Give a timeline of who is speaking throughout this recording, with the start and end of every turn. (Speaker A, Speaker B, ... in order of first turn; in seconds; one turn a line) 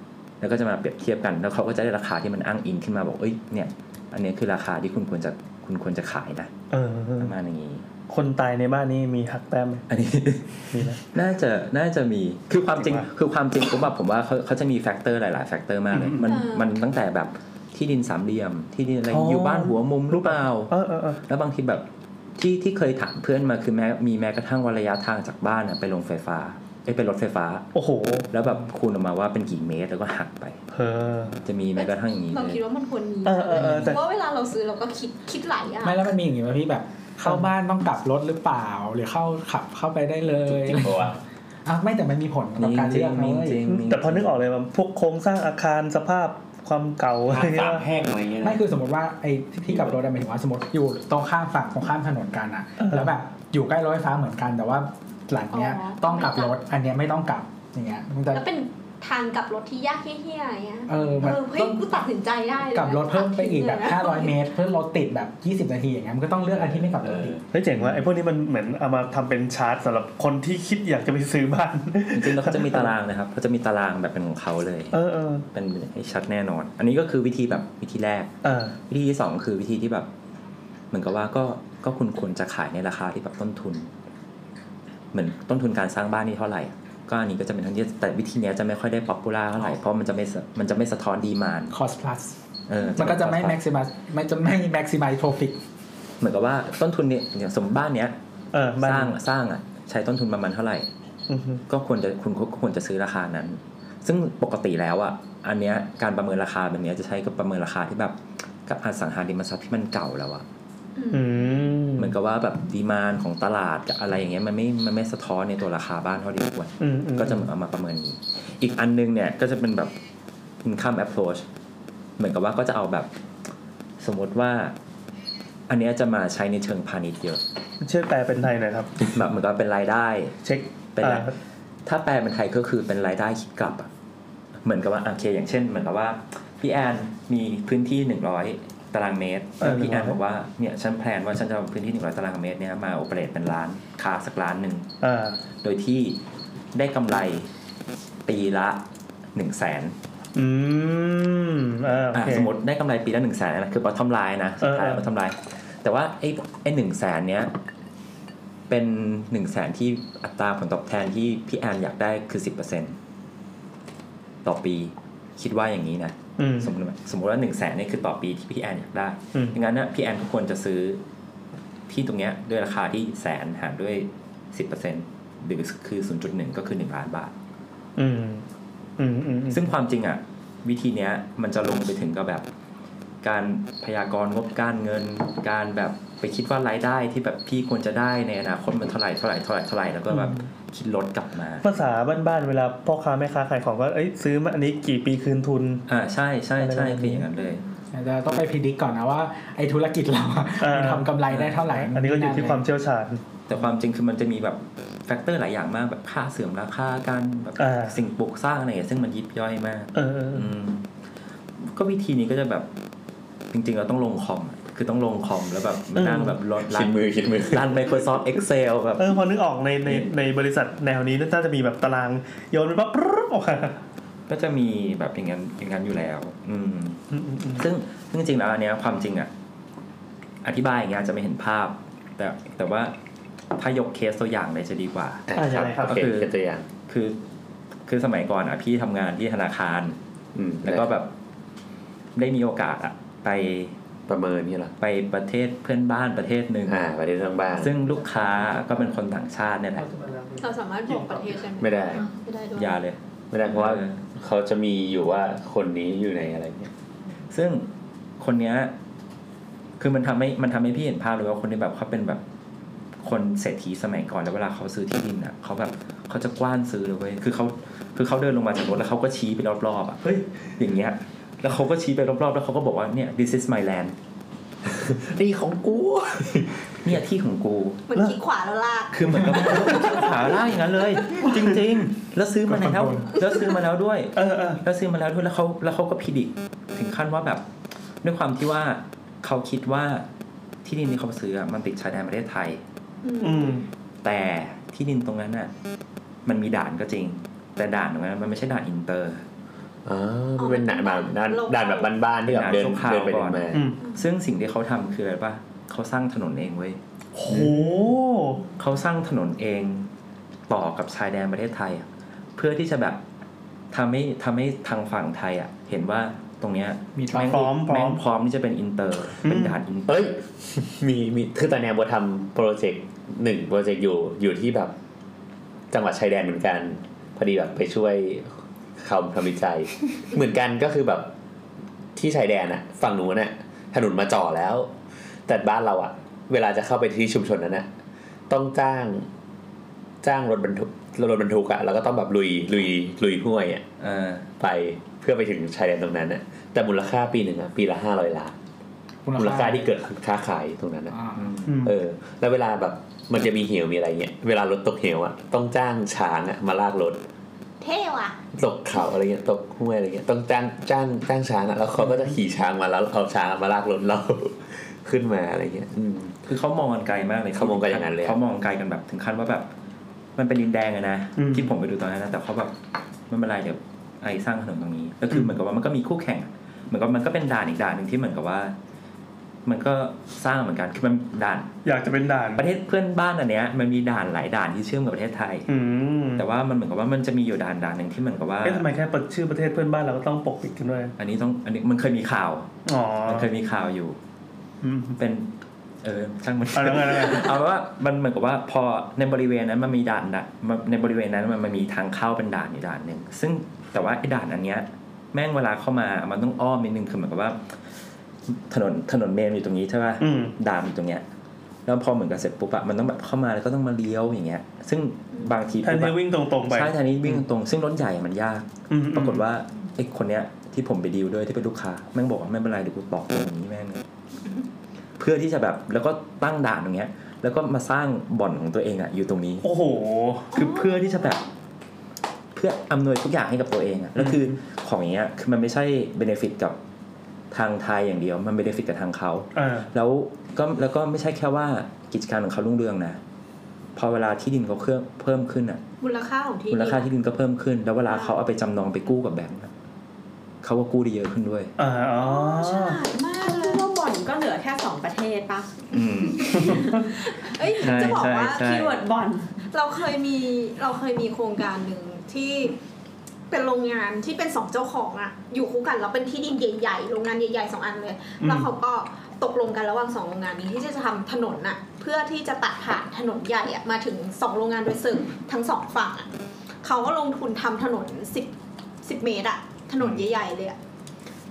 Speaker A: 0.4-6.5
Speaker B: 6.7-7.3
Speaker A: 7.2-7.9
Speaker B: 8.1-9.9
Speaker A: 9.9-21.9
Speaker B: 10.7-11.0
Speaker B: 12.8-13.1
Speaker B: 15.9-16.4
Speaker C: 16.2-16.7
Speaker B: 19.1-21.2
Speaker A: 22.4-27.7
Speaker B: 27.8-28.3
Speaker A: 28.3-30.6
Speaker B: 30.7-31.4
Speaker A: 31.4-32.6
Speaker C: 31.8-36.1
Speaker B: 33.2-34.0
Speaker D: 33.5-34.0
Speaker D: 35.8-41.1
Speaker E: 40.5-41.2
Speaker D: 41.7-43.6
Speaker A: 42.6-44.4
Speaker B: 43.7-47.8
Speaker E: 47.3-48.6
Speaker D: 48.4-58.5
Speaker C: 55.5-56.5
Speaker C: 58.3-64.4
Speaker D: 60.9-61.8
Speaker D: 62.7-67.4
Speaker E: 66.6-67.4
Speaker B: 67.5-72.9
Speaker A: 67.8-68.1
Speaker A: 72.1-75.0
Speaker B: 74.9-75.5
Speaker A: 75.5-78.3
Speaker B: 78.4-78.8
Speaker A: 78.9-80.1
Speaker A: 80.9-83.9
Speaker A: 85.1-91.7
Speaker D: 91.7-92.4
Speaker A: 92.7-93.6
Speaker D: 93.0-95.6
Speaker A: 96.2-98.2
Speaker B: 98.5-99.1
Speaker A: 98.8-100.9
Speaker B: 101.3-101.6
Speaker A: 101.7-110.5
Speaker C: 111.0-111.8
Speaker B: 111.1-112.2
Speaker A: 112.0-119.9
Speaker B: 116.8-117.5
Speaker A: 120.6-121.5
Speaker A: 122.2-123.1
Speaker A: 124.0-124.7
Speaker A: 125.7-127.4
Speaker B: 127.8-129.0
Speaker A: 129.1-130.4
Speaker B: 130.4-131.4
Speaker A: 131.0-131.3
Speaker A: 131.8-133.9
Speaker A: 134.6-144.9
Speaker B: 139.6-140.2
Speaker B: 145.0-145.4
Speaker A: 145.6-146.2
Speaker A: 146.7-147.5
Speaker A: 148.3-148.8
Speaker A: 149.3-150.0
Speaker B: 150.3-152.5
Speaker A: 152.1-157.5
Speaker B: 154.6-155.1
Speaker A: 158.7-163.0
Speaker A: 164.4-171.0
Speaker B: 166.4-166.7
Speaker A: 171.9-177.3
Speaker B: 178.0-178.4
Speaker B: 179.0-179.6
Speaker A: 179.5-182.5
Speaker A: 183.2-191.7
Speaker B: 190.1-190.4
Speaker B: 191.6-195.9
Speaker A: 195.9-197.6
Speaker B: 196.6-197.3
Speaker D: 197.9-202.6
Speaker B: 200.6-203.2
Speaker A: 203.5-210.9
Speaker B: 207.6-208.0
Speaker B: 209.9-210.5
Speaker A: 211.6-212.7
Speaker A: 213.5-219.1
Speaker B: 216.0-216.4
Speaker E: 216.7-217.7
Speaker B: 219.0-223.8
Speaker A: 219.8-220.1
Speaker A: 224.3-227.0
Speaker B: 227.1-227.6
Speaker A: 227.6-229.3
Speaker A: 230.4-232.9
Speaker A: 233.5-235.3
Speaker E: 235.3-236.7
Speaker B: 235.3-236.0
Speaker A: 235.8-236.3
Speaker A: 236.9-237.2
Speaker A: 237.9-240.0
Speaker E: 240.3-240.9
Speaker A: 240.6-241.1
Speaker A: 242.2-243.8
Speaker E: 244.1-244.7
Speaker A: 244.8-246.8
Speaker E: 246.7-247.7
Speaker A: 247.6-249.9
Speaker B: 249.9-250.3
Speaker C: 250.4-252.8
Speaker E: 251.6-252.1
Speaker A: 252.6-254.0
Speaker E: 253.3-256.7
Speaker A: 257.3-257.7
Speaker A: 258.2-258.7
Speaker A: 259.8-262.2
Speaker A: 263.0-274.0
Speaker E: 274.7-276.7
Speaker A: 276.8-277.9
Speaker C: 277.9-280.2
Speaker A: 278.9-287.4
Speaker D: 282.7-283.1
Speaker B: 284.2-284.6
Speaker A: 288.0-290.1
Speaker A: 290.6-292.6
Speaker C: 293.0-293.7
Speaker B: 293.2-293.6
Speaker A: 294.0-295.5
Speaker A: 296.2-299.2
Speaker E: 299.9-303.7
Speaker C: 300.4-301.9
Speaker A: 302.3-306.8
Speaker B: 303.5-303.8
Speaker B: 307.2-308.4
Speaker A: 308.6-309.9
Speaker A: 310.5-313.0
Speaker A: 313.7-320.1
Speaker D: 316.9-317.5
Speaker B: 317.3-318.0
Speaker B: 319.2-319.6
Speaker E: 319.9-324.7
Speaker E: 325.7-331.1
Speaker E: 331.9-334.7
Speaker E: 335.3-337.7
Speaker E: 338.3-339.1
Speaker E: 340.0-343.6
Speaker A: 343.8-344.3
Speaker E: 344.4-348.4
Speaker D: 349.1-349.7
Speaker E: 349.2-351.0
Speaker D: 350.9-351.3
Speaker A: 351.2-351.6
Speaker B: 351.5-351.8
Speaker E: 351.6-357.0
Speaker C: 357.6-358.2
Speaker E: 358.3-366.2
Speaker A: 366.2-369.5
Speaker E: 367.4-368.2
Speaker A: 370.2-372.5
Speaker B: 371.2-371.5
Speaker A: 373.1-378.5
Speaker A: 379.4-381.5
Speaker B: 381.6-382.4
Speaker A: 382.4-385.5
Speaker B: 385.5-386.2
Speaker A: 386.1-388.7
Speaker B: 388.4-390.9
Speaker A: 391.0-392.5
Speaker B: 392.7-393.3
Speaker A: 393.1-394.0
Speaker B: 394.6-395.0
Speaker A: 395.0-407.4
Speaker B: 396.5-397.3
Speaker A: 408.3-411.1
Speaker B: 410.0-410.3
Speaker A: 411.7-423.8
Speaker B: 415.6-417.2
Speaker B: 418.7-419.2
Speaker A: 425.0-429.5
Speaker B: 429.4-430.3
Speaker C: 430.3-431.2
Speaker A: 430.3-431.2
Speaker A: 432.3-436.6
Speaker B: 434.0-434.3
Speaker A: 437.3-443.0
Speaker B: 439.4-439.7
Speaker A: 443.8-445.6
Speaker C: 445.8-446.9
Speaker A: 446.5-449.5
Speaker C: 447.9-448.1
Speaker A: 450.4-451.5
Speaker B: 451.6-452.8
Speaker C: 451.9-453.7
Speaker F: 453.2-455.5
Speaker A: 455.7-456.7
Speaker C: 456.1-458.4
Speaker A: 457.6-458.8
Speaker F: 457.7-459.3
Speaker C: 459.5-462.6
Speaker C: 463.3-476.1
Speaker B: 468.2-468.5
Speaker C: 476.6-478.3
Speaker C: 478.8-480.6